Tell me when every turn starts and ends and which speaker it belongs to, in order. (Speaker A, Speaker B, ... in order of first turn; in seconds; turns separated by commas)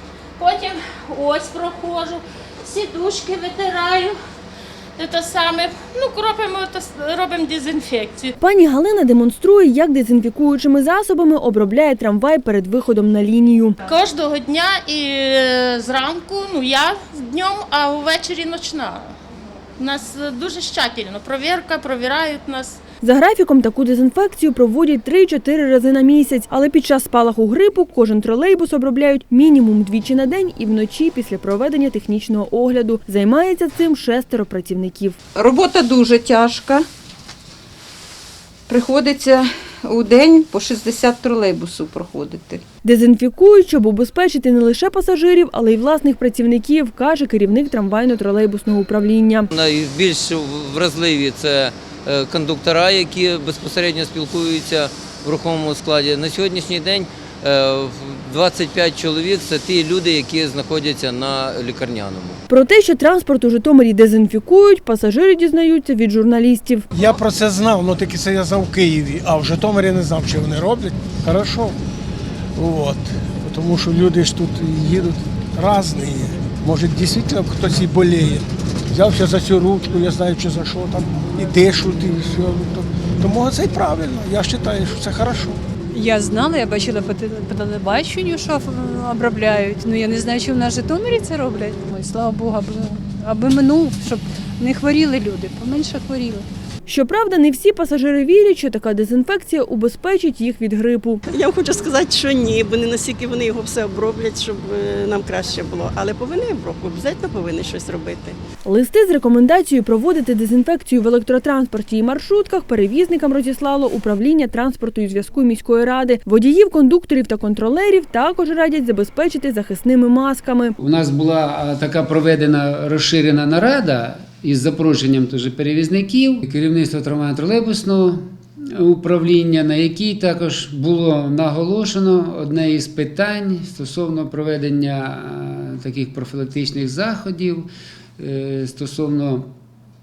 Speaker A: 0.4-4.1, Speaker A: 5.0-8.3, Speaker B: 8.4-13.8, Speaker A: 13.8-19.1, Speaker A: 19.8-22.8, Speaker B: 23.0-35.2, Speaker C: 35.3-36.9, Speaker C: 38.7-42.6, Speaker B: 42.8-49.5, Speaker D: 49.5-62.4, Speaker B: 62.5-66.9, Speaker E: 66.9-71.8, Speaker E: 72.5-85.6, Speaker F: 85.9-96.5, Speaker B: 96.8-101.2, Speaker G: 101.3-108.4, Speaker B: 108.6-120.8, Speaker H: 120.8-128.2, Speaker H: 128.7-139.5